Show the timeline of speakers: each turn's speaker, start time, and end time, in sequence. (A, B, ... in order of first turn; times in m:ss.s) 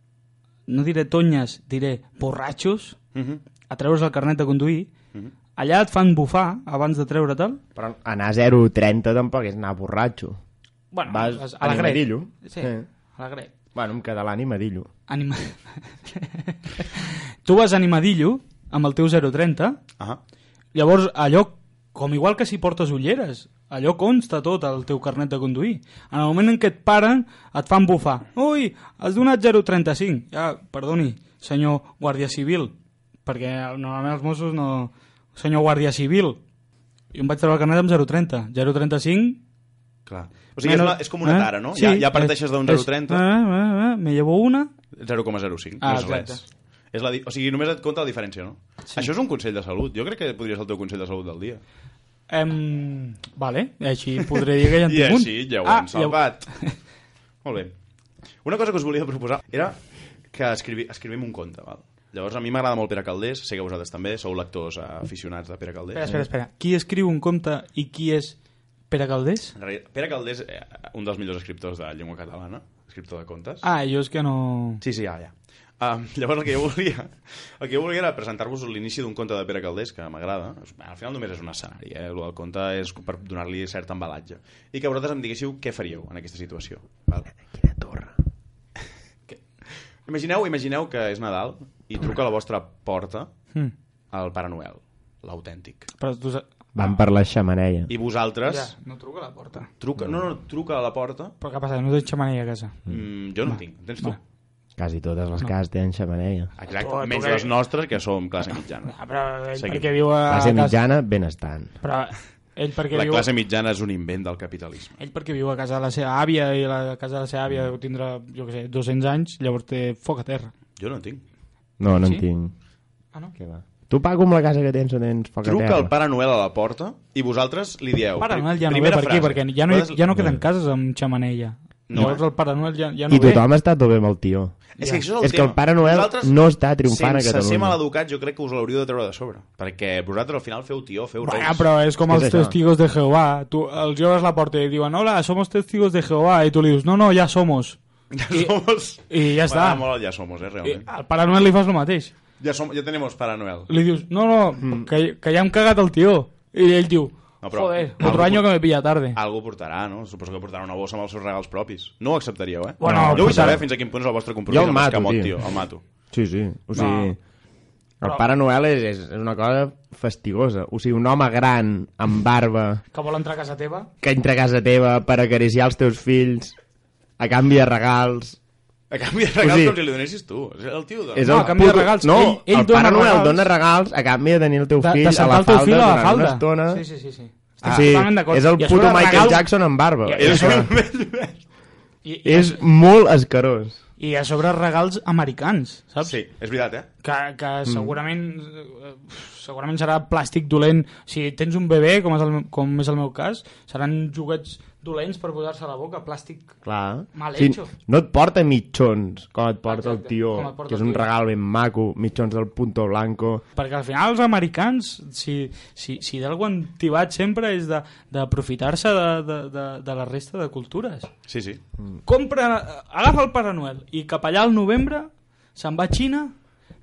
0:00.7-0:03.0 A
0:03.1-0:03.4 B
0:03.7-0:04.9 A
0:05.6-0:07.6 A
0:07.8-0:10.4 C
0:10.9-0:13.5 A
0:11.1-0:12.8 C
0:13.7-0:14.9 C
0:15.1-0:19.8 A
0:20.7-0:32.7 A
0:33.2-0:36.4 A
0:37.1-0:39.4 A
0:40.1-0:43.2 B
0:40.6-0:44.7 A
0:44.9-0:51.6 B
0:45.8-0:46.4 A
0:52.3-0:56.7 A
0:54.8-0:56.5 B
0:57.4-0:57.7 B
0:58.4-1:06.2 B
1:05.9-1:08.4 A
1:08.9-1:09.5 A
1:09.6-1:13.6 B
1:13.6-1:14.8 A
1:14.8-1:27.3 B
1:27.4-1:28.1 C
1:30.0-1:33.3 B
1:34.1-1:35.9 B
1:36.0-1:36.4 A
1:36.7-1:37.9 C
1:37.9-1:38.7 B
1:38.4-1:39.7 A
1:39.8-1:41.3 B
1:41.4-1:42.9 A
1:42.9-1:44.2 B
1:43.4-1:44.2 A
1:44.8-1:46.5 C
1:46.6-1:48.9 B
1:46.8-1:47.5 A
1:48.8-1:50.8 A
1:49.6-1:49.9 B
1:50.3-1:51.7 C
1:51.8-1:53.3 A
1:52.9-1:55.0 B
1:55.0-2:00.5 A
2:00.8-2:01.2 B
2:01.8-2:02.5 C
2:01.9-2:02.2 A
2:03.4-2:05.9 C
2:05.4-2:10.0 B
2:08.2-2:13.4 A
2:10.1-2:10.4 C
2:11.9-2:12.2 B
2:13.1-2:17.8 C
2:14.8-2:21.6 B
2:21.2-2:27.8 A
2:22.0-2:22.6 C
2:28.1-2:30.8 B
2:29.1-2:29.8 A
2:30.6-2:32.1 A
2:32.4-2:33.7 B
2:33.7-2:39.2 A
2:34.6-2:34.9 C
2:37.4-2:38.5 B
2:39.1-2:45.8 B
2:42.8-2:43.6 A
2:42.8-2:43.6 C
2:44.5-2:45.3 C
2:46.1-2:47.2 C
2:46.7-2:47.1 A
2:48.0-2:52.8 C
2:52.9-2:53.9 A
2:54.0-2:56.6 C
2:57.2-2:58.4 C
2:58.9-3:01.6 B
2:59.4-2:59.8 C
3:01.1-3:06.8 C
3:01.2-3:03.5 A
3:04.8-3:09.5 A
3:07.6-3:08.0 B
3:07.6-3:10.7 C
3:10.0-3:10.7 A
3:10.2-3:11.4 B
3:12.0-3:12.6 A
3:12.2-3:13.8 C
3:14.0-3:16.2 A
3:16.0-3:16.9 B
3:17.0-3:26.5 A
3:17.6-3:17.9 C
3:26.6-3:33.4 C
3:27.1-3:27.7 A
3:29.7-3:31.1 A
3:33.5-3:41.1 A
3:41.3-3:41.6 B
3:42.0-3:46.3 A